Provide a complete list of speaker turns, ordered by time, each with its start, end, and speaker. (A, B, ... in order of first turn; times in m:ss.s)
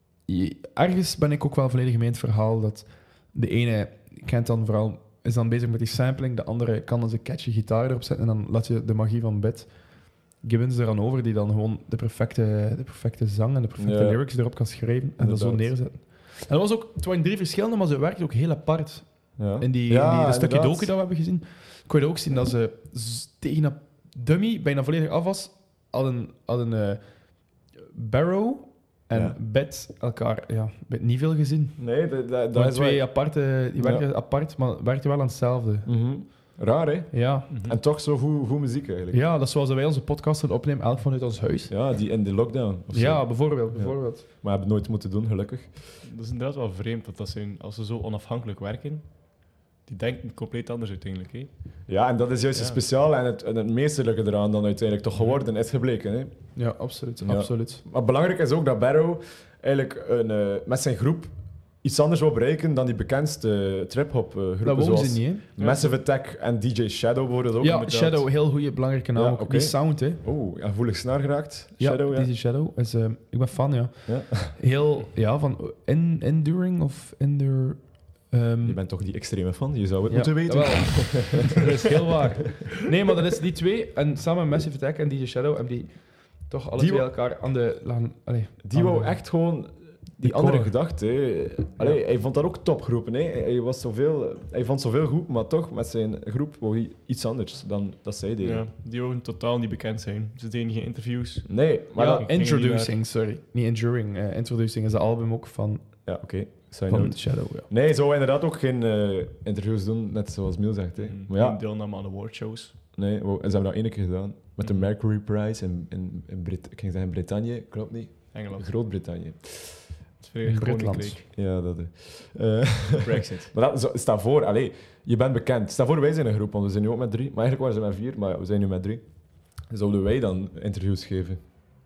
0:00.2-0:31.8 A
0:13.8-0:14.2 B
0:15.2-0:15.7 B
0:19.4-0:20.9 B
0:31.8-0:33.2 B
0:32.5-0:36.5 A
0:33.8-0:34.0 B
0:35.8-0:39.2 B
0:37.1-0:37.5 A
0:37.5-0:37.8 C
0:39.1-0:41.7 A
0:41.7-0:45.8 B
0:42.9-0:44.2 A
0:46.0-0:51.5 C
0:51.9-0:56.3 B
0:52.5-0:52.8 C
0:55.1-0:55.4 C
0:56.6-0:57.8 A
0:57.2-1:07.9 B
1:04.6-1:05.4 A
1:05.6-1:06.0 C
1:07.6-1:10.2 A
1:07.8-1:08.2 C
1:09.1-1:12.3 B
1:11.8-1:18.8 A
1:14.1-1:14.5 B
1:18.6-1:21.6 B
1:20.1-1:29.3 A
1:26.8-1:27.1 B
1:28.6-1:38.6 B
1:30.2-1:30.8 A
1:38.4-1:42.9 C
1:41.5-1:42.2 B
1:42.0-1:46.1 A
1:46.0-1:51.6 B
1:46.9-1:47.7 A
1:51.0-1:52.8 C
1:52.9-1:59.9 B
1:54.6-1:54.9 C
1:58.3-1:58.7 C
2:00.2-2:01.2 C
2:00.4-2:01.2 A
2:01.3-2:11.4 B
2:03.0-2:03.5 C